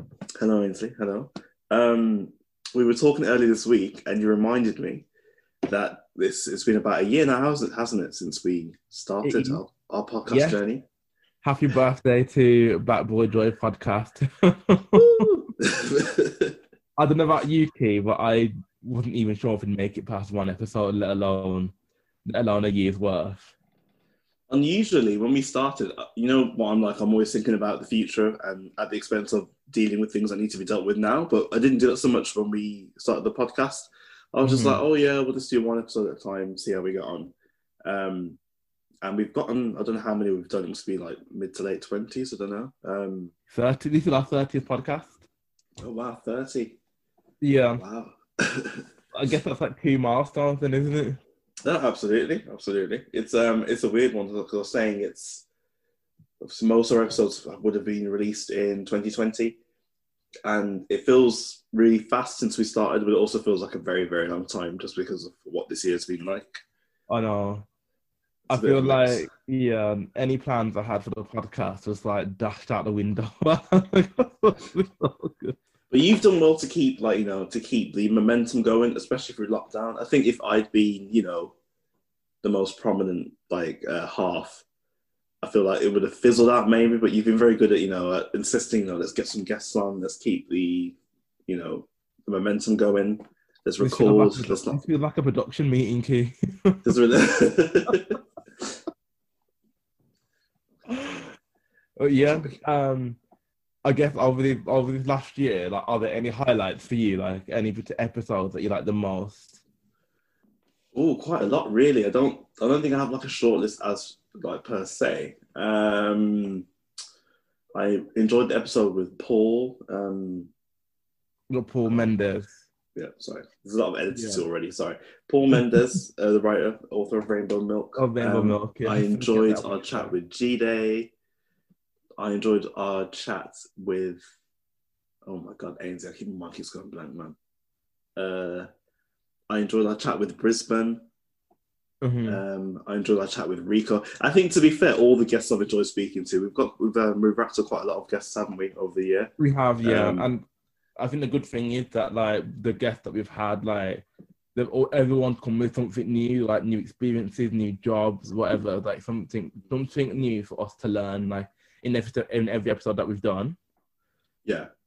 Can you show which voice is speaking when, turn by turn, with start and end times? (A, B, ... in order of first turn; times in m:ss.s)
0:00.4-0:05.1 A
0:05.7-0:10.8 A
0:09.2-0:09.6 B
0:10.3-0:10.6 B
0:11.4-0:15.5 B
0:15.6-0:16.6 A
0:17.0-0:21.7 B
0:22.2-0:23.5 B
0:24.5-0:37.3 A
0:34.4-0:34.8 B
0:37.8-0:38.4 A
0:39.0-0:43.3 A
0:43.5-0:45.2 B
0:45.8-0:46.8 A
0:47.4-0:47.8 B
0:47.8-0:48.8 A
0:49.1-0:51.2 B
0:51.6-0:55.4 A
0:56.4-0:59.6 A
1:00.4-1:06.6 A
1:07.1-1:07.6 B
1:08.5-1:15.6 B
1:08.5-1:09.3 A
1:15.9-1:21.5 A
1:22.4-1:24.6 A
1:25.4-1:31.0 A
1:31.5-1:34.8 A
1:33.8-1:36.9 B
1:36.8-1:38.2 A
1:40.9-1:41.3 B
1:42.0-1:43.2 B
1:43.8-1:49.6 B
1:50.9-1:56.7 A
1:57.7-2:00.5 A
2:01.5-2:02.5 B
2:03.0-2:11.1 A
2:04.1-2:04.4 B
2:05.6-2:05.8 B
2:08.0-2:10.1 B
2:12.2-2:14.2 A
2:15.2-2:17.4 A
2:18.2-2:18.7 A
2:19.5-2:21.0 A
2:22.0-2:22.4 B
2:22.2-2:29.3 A
2:29.4-2:30.4 B
2:29.8-2:30.3 A
2:31.0-2:34.0 B
2:34.5-2:43.6 B